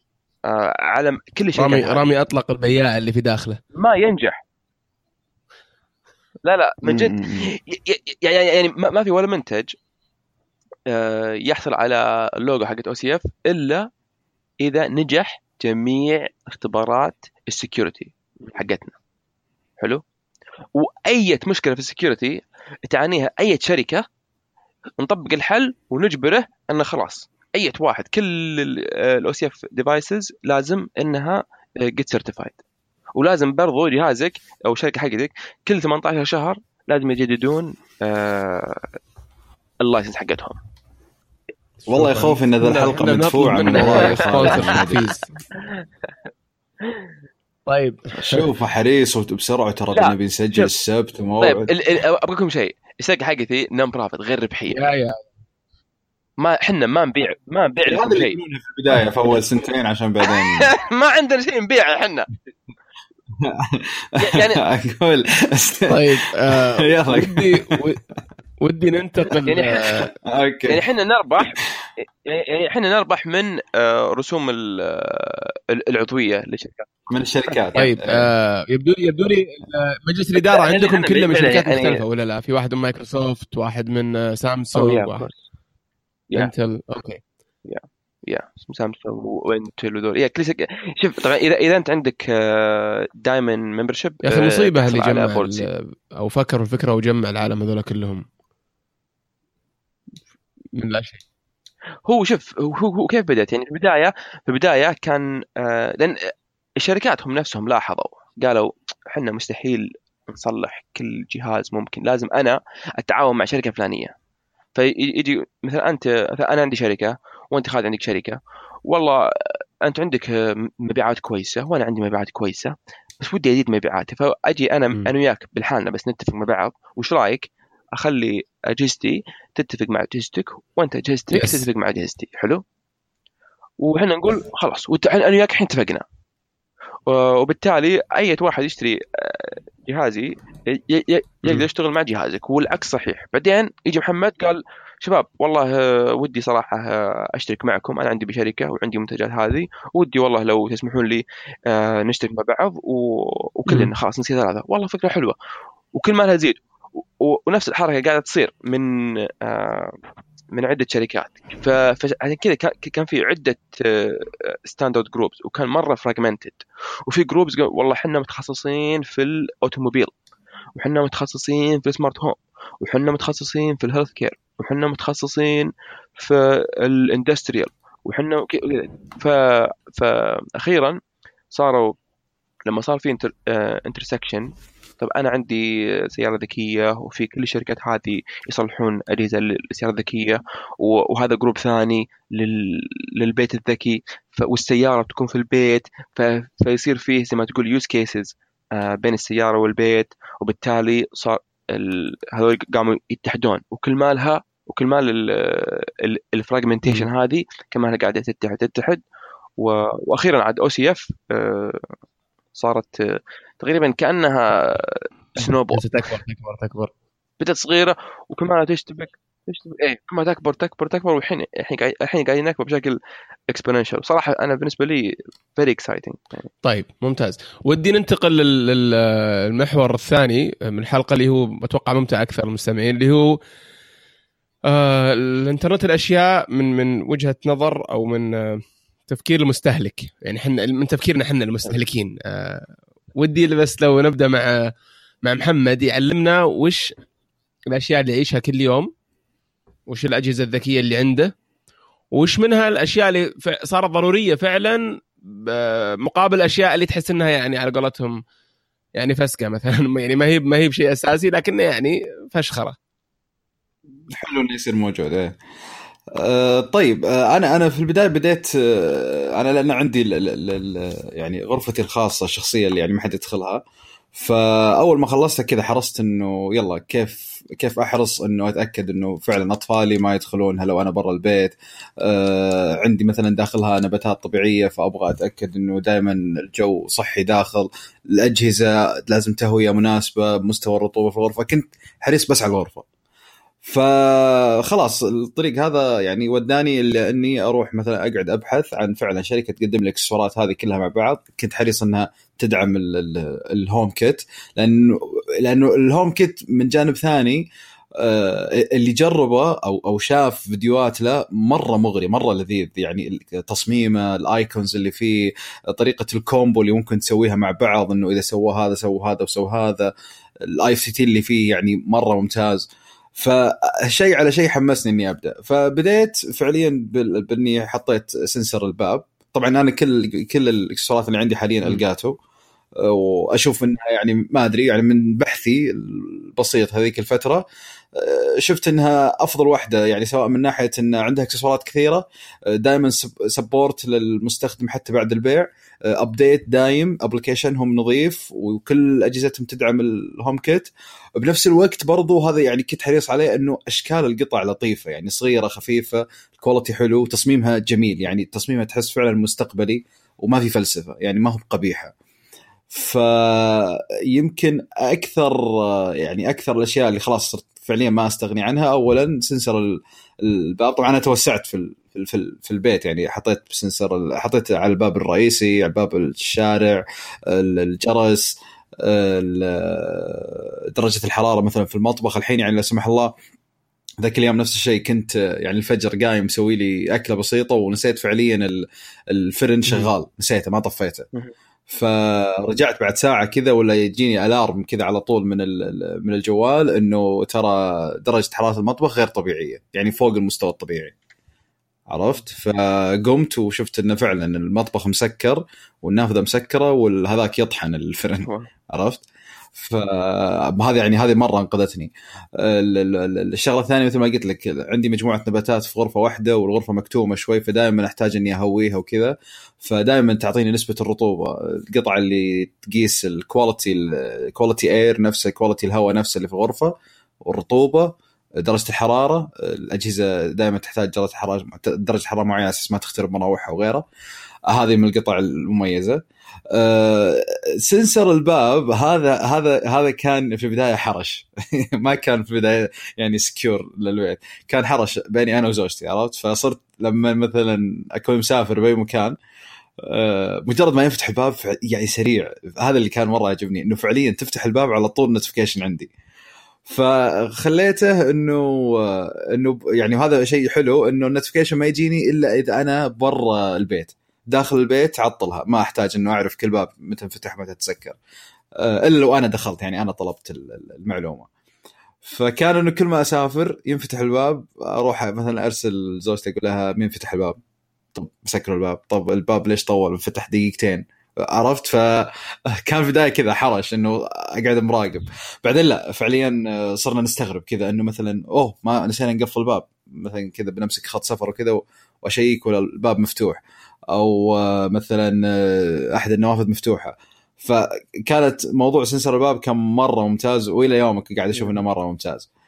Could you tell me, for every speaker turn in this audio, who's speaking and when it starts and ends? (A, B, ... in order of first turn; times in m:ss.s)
0:00.5-0:02.1 A
0:01.6-0:03.6 B
0:03.7-0:04.4 A
0:06.4-0:09.7 A
0:06.8-0:07.5 C
0:10.9-0:13.9 A
0:14.6-0:19.0 A
0:20.7-0:24.0 A
0:25.0-0:32.6 A
0:33.2-0:38.9 A
0:39.8-0:40.6 A
0:41.9-0:45.4 B
0:41.9-0:45.1 C
0:43.8-0:44.6 A
0:47.7-0:48.4 B
0:48.1-0:51.7 C
0:49.9-0:50.7 A
0:51.4-0:54.9 A
0:54.7-0:55.2 B
0:56.4-0:58.4 A
0:57.8-1:00.7 C
1:00.3-1:02.3 A
1:03.4-1:07.8 C
1:04.2-1:04.6 A
1:05.9-1:08.0 B
1:08.6-1:10.1 B
1:09.4-1:10.1 A
1:09.9-1:10.8 C
1:10.7-1:16.9 A
1:17.1-1:18.3 C
1:17.8-1:25.3 B
1:20.4-1:22.0 A
1:24.7-1:25.4 A
1:26.3-1:27.2 B
1:27.6-1:35.7 A
1:34.2-1:38.2 B
1:40.7-1:41.2 B
1:42.0-1:54.1 A
1:54.7-2:12.6 A
2:11.3-2:11.6 B
2:13.8-2:16.0 A
2:17.0-2:35.4 A
2:33.7-2:33.9 B
2:35.9-2:40.0 A
2:40.5-2:50.1 A
2:50.8-3:01.0 A
3:01.5-3:02.0 A
3:02.7-3:29.0 A
3:29.6-3:31.9 A
3:32.5-3:35.8 A
3:35.7-3:36.9 B
3:37.4-3:43.0 A
3:43.5-3:46.5 A
3:46.6-3:53.4 B
3:54.7-4:04.7 B
4:05.2-4:06.9 B
4:07.7-4:08.9 B
4:09.9-4:11.3 B
4:12.1-4:18.2 B
4:19.0-4:22.8 B
4:24.1-4:25.4 C
4:26.1-4:33.6 C
4:34.1-4:52.8 C
4:53.6-5:19.9 C
5:20.5-5:32.1 C
5:32.8-5:37.4 C
5:37.9-6:01.9 C
6:02.7-6:23.1 C
6:24.0-6:31.1 C
6:31.7-6:40.9 C
6:41.9-6:49.0 C
6:49.5-7:13.8 C
7:14.5-7:16.0 C
7:16.5-7:29.1 C
7:29.8-7:35.9 C
7:36.6-7:48.0 C
7:48.6-7:51.3 C
7:52.0-7:57.4 C
7:57.9-8:13.4 C
8:13.9-8:22.3 C